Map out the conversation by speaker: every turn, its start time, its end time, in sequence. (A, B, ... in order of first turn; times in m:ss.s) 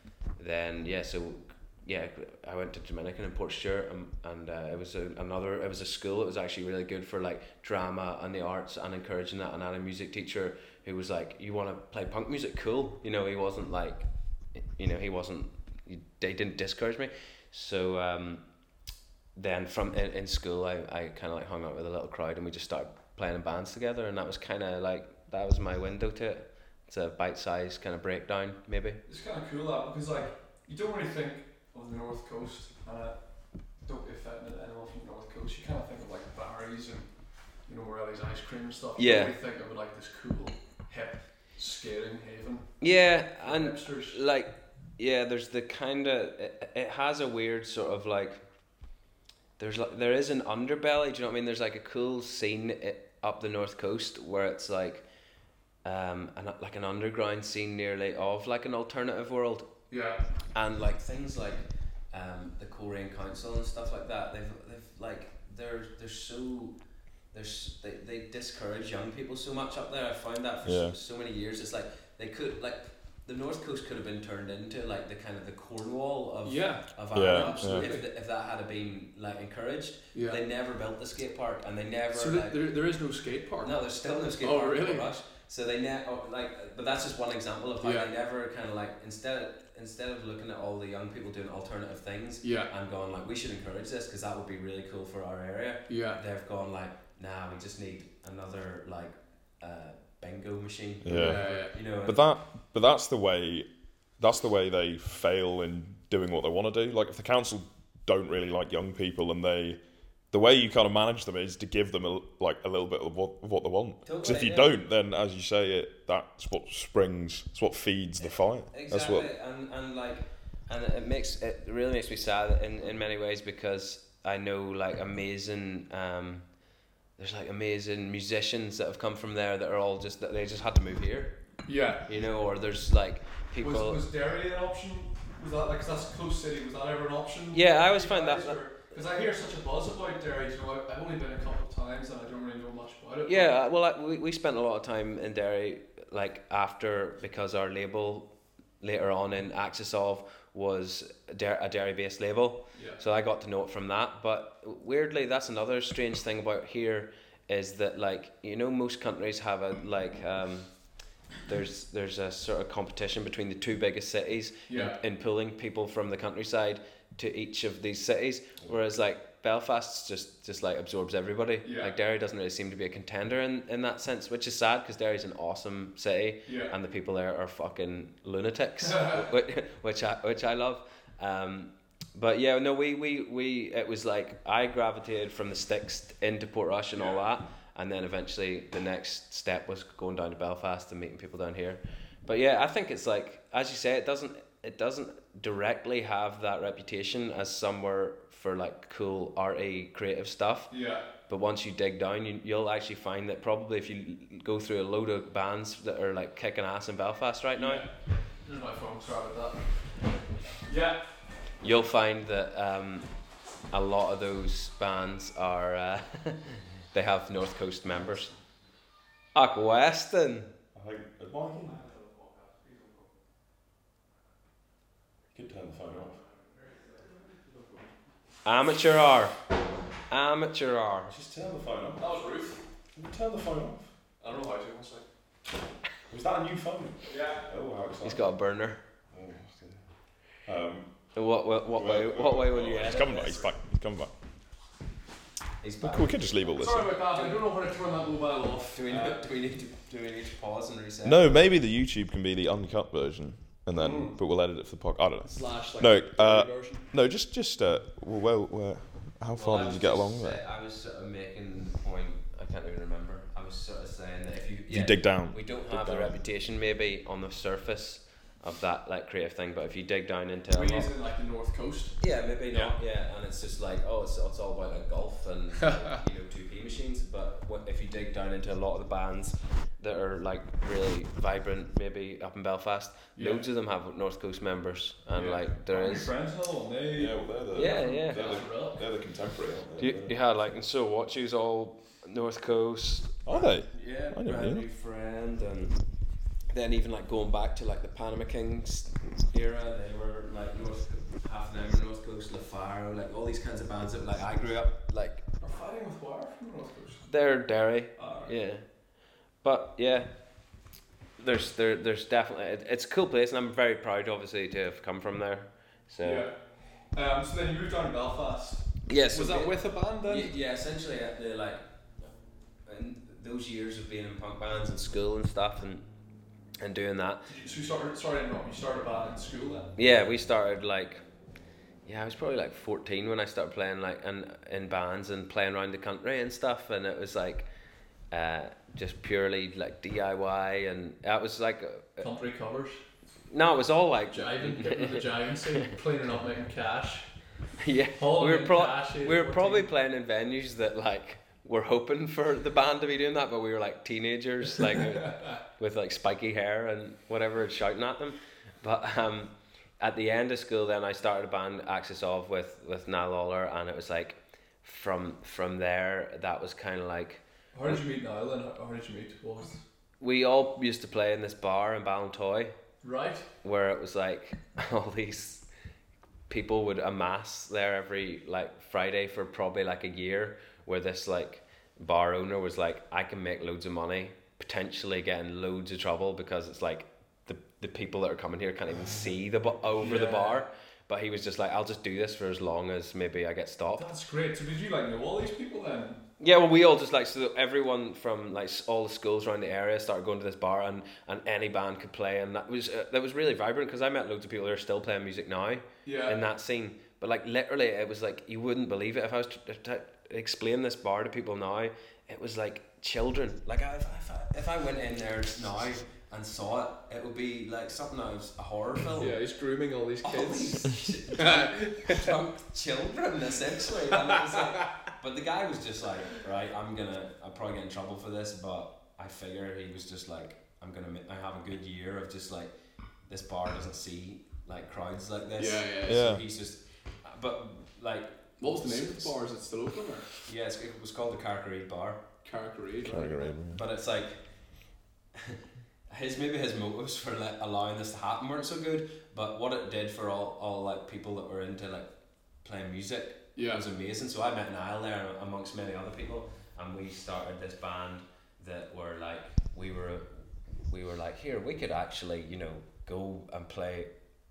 0:00.3-0:18.5 A
0:19.4-0:29.0 A
0:29.0-0:44.2 B
0:39.0-0:39.3 A
0:42.8-0:48.4 A
0:49.6-0:55.1 A
0:55.8-0:59.7 A
0:59.9-1:00.3 B
1:00.5-1:06.8 A
1:07.3-1:22.6 A
1:10.6-1:11.0 C
1:16.4-1:18.0 B
1:17.1-1:17.9 C
1:20.1-1:20.4 B
1:22.1-1:25.1 B
1:23.6-1:42.2 A
1:27.8-1:28.1 B
1:32.4-1:32.7 B
1:35.9-1:36.2 B
1:41.0-1:41.4 C
1:41.1-1:41.7 B
1:42.0-1:59.3 C
1:54.0-1:54.8 A
1:58.2-2:06.6 A
2:07.2-2:14.0 A
2:11.7-2:12.1 B
2:13.6-2:23.6 B
2:17.5-2:18.7 A
2:23.3-3:27.9 A
2:32.7-2:33.0 B
2:44.7-2:45.0 B
2:51.6-2:51.9 B
2:56.5-2:56.7 B
2:58.9-2:59.2 B
3:20.7-3:21.1 B
3:27.6-3:31.2 B
3:31.6-3:38.4 A
3:39.3-3:40.5 A
3:40.8-3:41.8 C
3:41.7-3:43.0 B
3:45.3-3:46.2 C
3:47.0-3:47.9 B
3:48.4-3:49.4 A
3:50.1-3:51.1 A
3:51.1-3:52.0 C
3:52.0-3:52.7 B
3:52.9-3:53.9 C
3:54.2-3:55.1 B
3:56.1-3:58.3 C
3:57.1-3:57.4 B
3:58.0-3:58.8 A
3:59.1-4:01.2 C
4:01.1-4:03.4 A
4:01.7-4:04.1 C
4:05.6-4:07.4 A
4:05.8-4:06.9 C
4:06.6-4:09.3 B
4:08.7-4:11.4 A
4:11.0-4:20.4 C
4:13.8-4:14.2 B
4:15.2-4:16.9 B
4:19.3-4:30.9 A
4:24.7-4:26.2 C
4:30.5-4:32.0 B
4:32.0-4:46.1 A
4:43.2-4:43.5 B
4:45.1-4:49.3 B
4:47.0-4:50.2 C
4:47.6-4:48.5 A
4:49.8-4:55.8 A
4:53.2-4:54.6 C
4:56.5-5:05.2 A
5:05.4-5:07.1 B
5:07.1-5:10.6 A
5:08.0-5:08.3 B
5:11.2-5:16.3 A
5:16.0-5:20.3 B
5:18.9-5:25.9 A
5:26.6-5:27.3 A
5:27.3-5:29.8 B
5:29.8-5:31.0 A
5:31.8-5:37.5 A
5:38.1-5:42.1 A
5:42.0-5:42.8 B
5:43.3-5:45.7 A
5:44.1-5:47.4 B
5:47.6-6:07.2 A
5:48.0-5:49.7 B
5:55.0-5:55.4 B
6:07.5-6:09.6 B
6:10.0-6:12.6 A
6:12.8-6:13.3 B
6:13.4-6:15.5 A
6:16.3-6:33.8 A
6:29.8-6:30.4 B
6:33.8-6:36.1 B
6:36.2-6:59.2 A
6:45.8-6:46.2 B
6:59.0-7:02.2 B
7:00.0-7:19.2 A
7:04.0-7:04.7 B
7:15.4-7:16.1 B
7:15.9-7:16.2 C
7:18.4-7:20.2 B
7:20.2-7:22.1 A
7:22.2-7:23.3 B
7:22.8-7:23.6 C
7:23.5-7:25.4 A
7:25.9-7:43.9 A
7:33.4-7:33.6 B